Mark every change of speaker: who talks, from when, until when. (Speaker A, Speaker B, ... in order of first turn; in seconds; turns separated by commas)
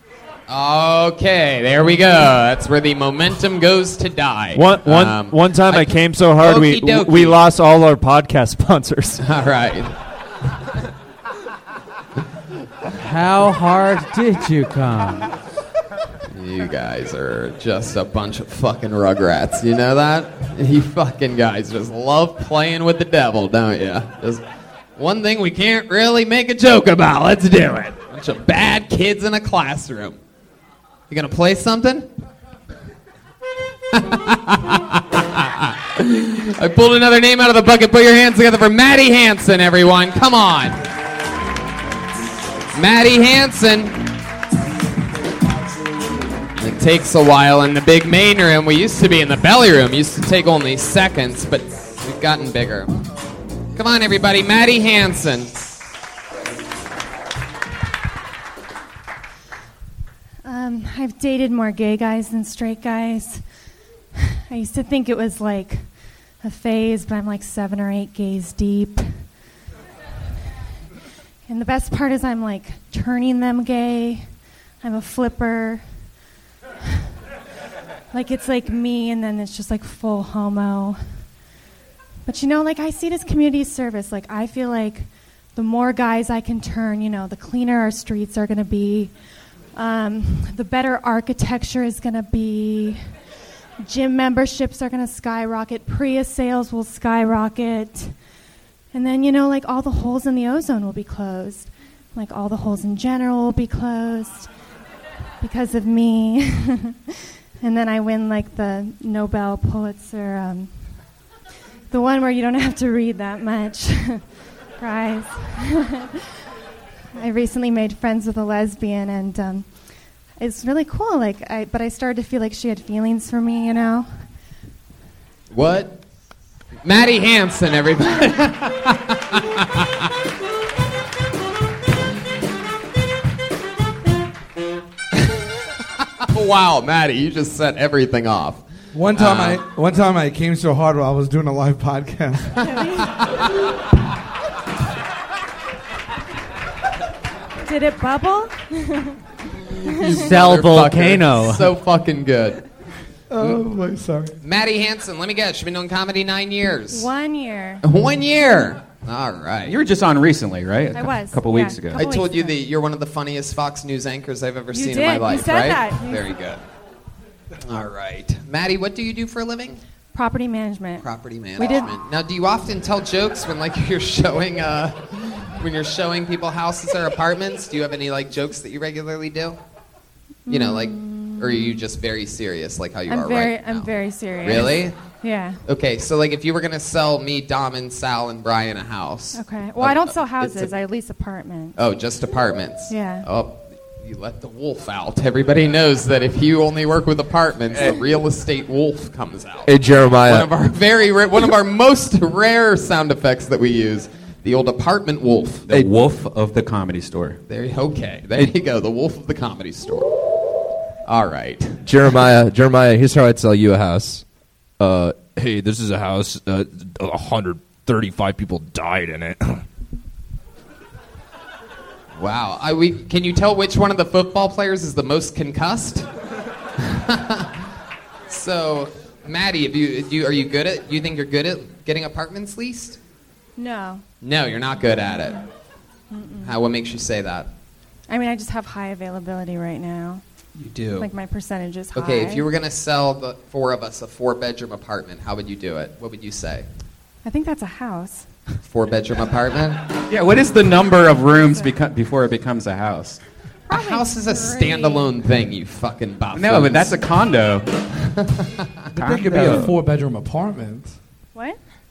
Speaker A: 0.5-7.4, Speaker B: 4.5-9.2, Speaker A: 9.2-9.9, Speaker C: 13.0-15.3, Speaker A: 16.3-24.4, Speaker A: 24.9-30.2, Speaker A: 31.1-32.1, Speaker A: 33.9-40.8, Speaker A: 42.7-44.2, Speaker A: 46.6-52.9, Speaker A: 53.7-55.6, Speaker D: 60.4-63.4, Speaker D: 64.2-65.8, Speaker D: 66.4-69.1, Speaker D: 71.5-74.2, Speaker D: 74.8-75.8, Speaker D: 78.1-81.0, Speaker D: 82.2-89.1, Speaker D: 89.7-93.0, Speaker D: 93.8-98.1, Speaker D: 98.9-104.5, Speaker D: 105.4-110.7, Speaker D: 111.9-114.2, Speaker D: 114.8-116.2, Speaker D: 117.2-119.7, Speaker D: 120.4-124.1, Speaker A: 125.5-126.0, Speaker A: 126.8-129.9, Speaker A: 136.2-138.6, Speaker E: 138.9-142.6, Speaker A: 139.1-139.6, Speaker D: 142.6-143.2, Speaker D: 147.6-149.2, Speaker A: 149.7-152.6, Speaker D: 149.9-150.2, Speaker C: 150.0-151.7, Speaker E: 153.3-154.4, Speaker A: 154.4-157.1, Speaker D: 156.9-157.8, Speaker A: 157.8-159.8, Speaker F: 159.6-162.0, Speaker D: 160.9-162.6, Speaker A: 161.9-166.6, Speaker D: 164.7-166.3, Speaker A: 167.6-169.8, Speaker D: 170.1-171.1, Speaker A: 171.0-179.6, Speaker D: 171.6-171.9, Speaker D: 180.4-181.8, Speaker A: 180.5-185.0, Speaker D: 183.1-185.6, Speaker A: 185.7-190.7, Speaker D: 189.3-191.8, Speaker A: 191.8-205.7, Speaker D: 192.9-193.3, Speaker G: 199.7-200.5, Speaker F: 205.7-207.4, Speaker A: 207.5-210.1, Speaker A: 211.1-211.8, Speaker G: 211.8-214.2, Speaker G: 214.8-219.6, Speaker A: 222.2-226.1, Speaker A: 226.8-227.5, Speaker A: 228.3-233.0, Speaker D: 233.6-234.0, Speaker A: 234.2-235.4, Speaker D: 236.1-236.5, Speaker A: 236.4-237.5, Speaker D: 238.1-240.2, Speaker A: 240.6-241.1, Speaker D: 241.0-242.4, Speaker A: 241.9-246.7, Speaker D: 247.2-248.3, Speaker A: 248.6-249.8, Speaker F: 250.1-253.2, Speaker D: 251.5-251.7, Speaker D: 253.7-255.1, Speaker A: 253.7-257.0, Speaker F: 256.3-257.7, Speaker A: 258.2-258.6, Speaker F: 258.9-259.7, Speaker E: 258.9-260.9